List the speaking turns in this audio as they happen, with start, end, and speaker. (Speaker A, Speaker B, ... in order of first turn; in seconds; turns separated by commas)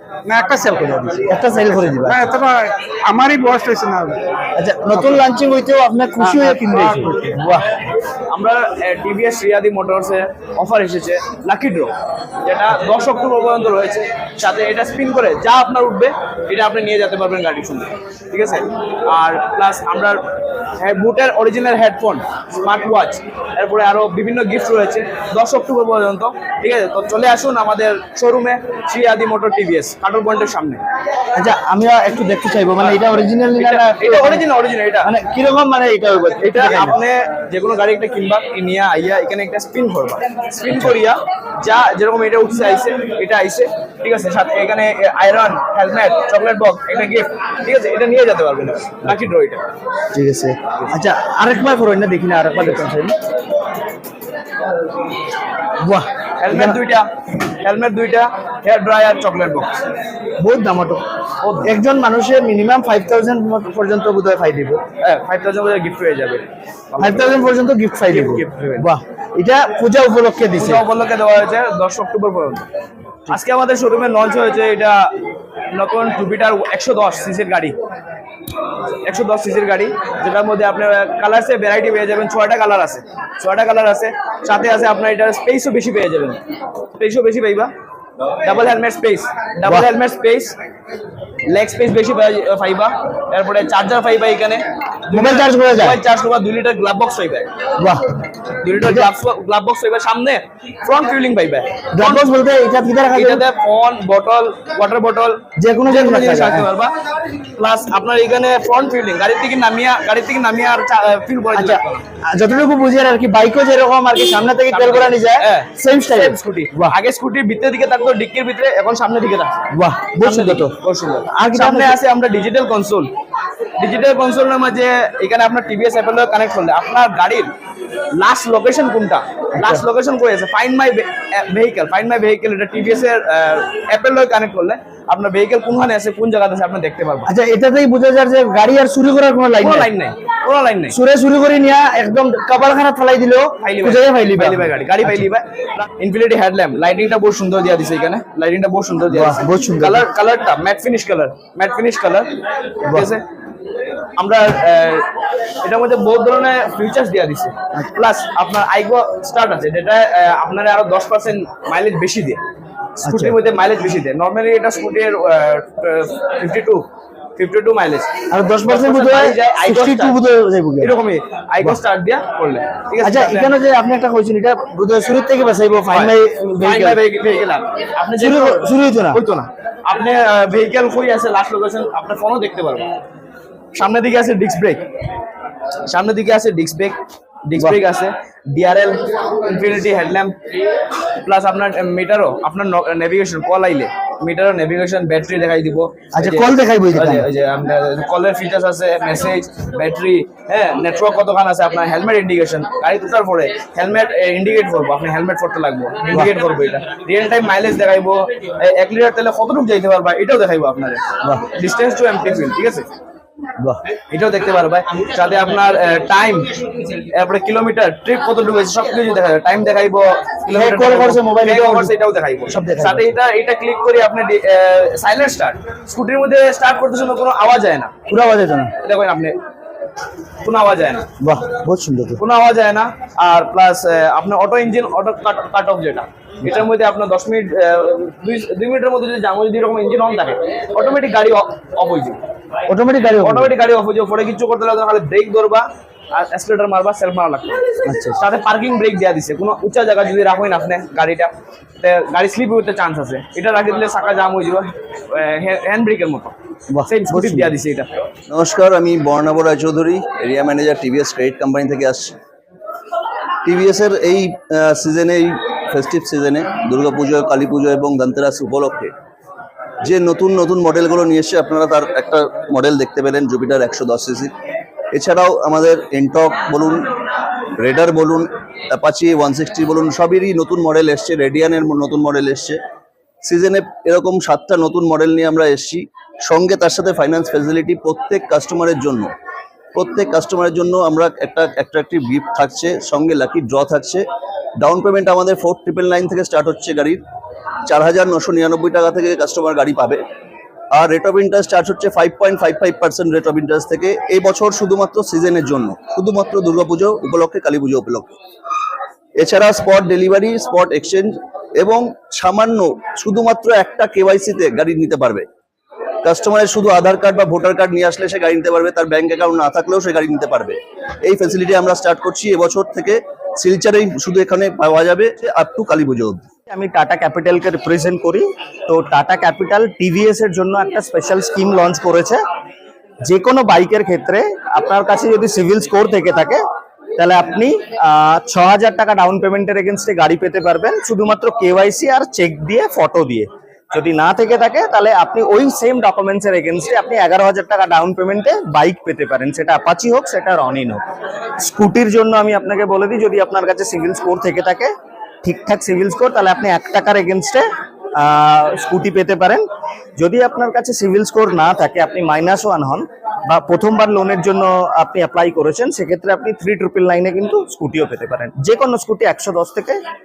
Speaker A: 0.2-4.2, Speaker B: 1.3-2.2, Speaker B: 4.5-7.7, Speaker A: 6.2-7.4, Speaker C: 8.3-11.9, Speaker C: 12.4-20.2, Speaker C: 20.8-30.8, Speaker B: 31.3-34.4, Speaker C: 32.8-35.1, Speaker B: 35.0-37.0, Speaker C: 36.4-49.6, Speaker B: 50.1-53.1, Speaker B: 55.8-56.8, Speaker C: 56.4-59.7, Speaker B: 60.4-61.0, Speaker C: 61.4-61.7, Speaker B: 61.6-64.8, Speaker C: 65.0-67.5, Speaker B: 67.0-70.8, Speaker C: 68.1-68.9, Speaker C: 70.5-72.7, Speaker C: 73.3-75.0, Speaker C: 75.7-77.7, Speaker C: 79.1-86.4, Speaker C: 87.0-87.7, Speaker C: 88.4-90.5, Speaker C: 91.5-97.5, Speaker B: 95.1-96.0, Speaker B: 97.8-98.0, Speaker C: 98.6-102.3, Speaker B: 98.8-99.1, Speaker B: 101.9-103.4, Speaker C: 103.1-106.9, Speaker B: 105.6-106.7, Speaker C: 107.5-112.0, Speaker B: 111.5-116.9, Speaker C: 114.7-119.6, Speaker B: 119.7-120.7, Speaker C: 120.2-123.1, Speaker B: 121.3-122.0, Speaker C: 123.8-127.5, Speaker C: 128.2-137.3, Speaker B: 137.2-139.9, Speaker C: 139.5-141.0, Speaker B: 140.9-145.1, Speaker C: 143.6-152.3, Speaker B: 149.1-150.0, Speaker C: 152.9-153.2, Speaker C: 154.2-155.1, Speaker C: 155.6-162.4, Speaker C: 163.0-168.1, Speaker B: 163.0-163.3, Speaker B: 168.3-170.9, Speaker C: 168.6-170.2, Speaker C: 170.8-173.6, Speaker B: 173.0-177.0, Speaker C: 175.9-182.9, Speaker B: 178.2-179.2, Speaker C: 183.8-184.8, Speaker C: 185.9-190.3, Speaker C: 191.2-212.9, Speaker B: 196.1-197.2, Speaker C: 214.1-227.9, Speaker B: 220.5-221.9, Speaker B: 222.5-223.1, Speaker B: 228.1-228.7, Speaker C: 228.8-229.4, Speaker C: 230.4-231.1, Speaker B: 231.2-232.2, Speaker C: 232.2-242.2, Speaker B: 242.7-243.5, Speaker C: 243.1-257.9, Speaker B: 247.9-248.2, Speaker B: 256.7-257.5, Speaker D: 258.3-262.1, Speaker D: 263.4-268.9, Speaker D: 269.8-274.3, Speaker D: 274.9-276.9, Speaker D: 277.6-282.6, Speaker D: 283.2-289.1, Speaker D: 289.7-294.0, Speaker D: 294.6-297.0, Speaker D: 297.7-300.0, Speaker D: 300.7-308.1, Speaker D: 309.2-315.3, Speaker D: 316.0-326.2, Speaker E: 326.5-332.2, Speaker E: 333.1-336.4, Speaker E: 337.0-350.8, Speaker E: 351.4-354.7, Speaker E: 355.2-359.4, Speaker E: 360.0-369.8